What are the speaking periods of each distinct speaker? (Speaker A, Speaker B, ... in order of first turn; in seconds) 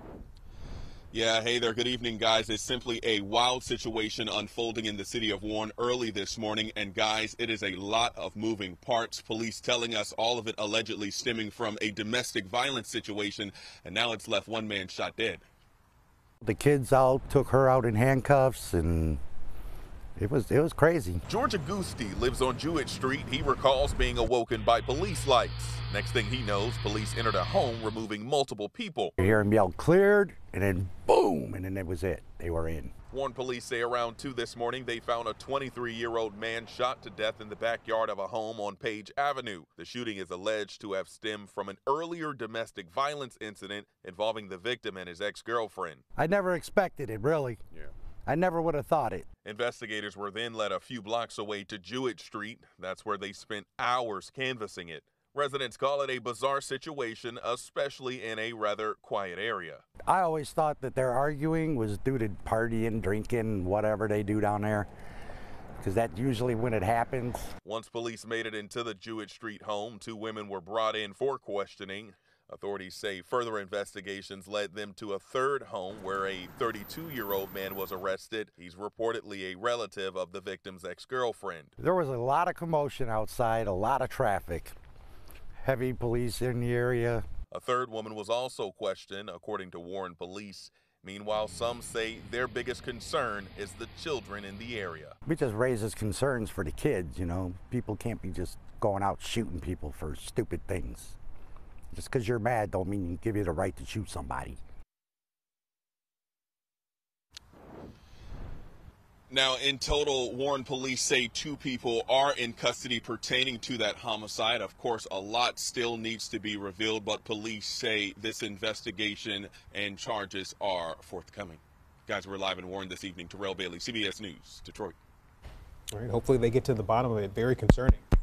Speaker A: 1.1-15.4, 21.3-29.1, 33.1-46.0, 49.4-59.8, 67.7-81.7, 87.5-95.2, 109.3-125.0
Speaker B: 16.4-19.2, 20.2-21.2, 29.2-32.9, 46.2-47.6, 48.3-49.3, 60.0-64.9, 65.8-67.5, 81.8-84.7, 85.6-87.2, 95.2-101.2, 101.9-104.6
Speaker C: 125.9-128.1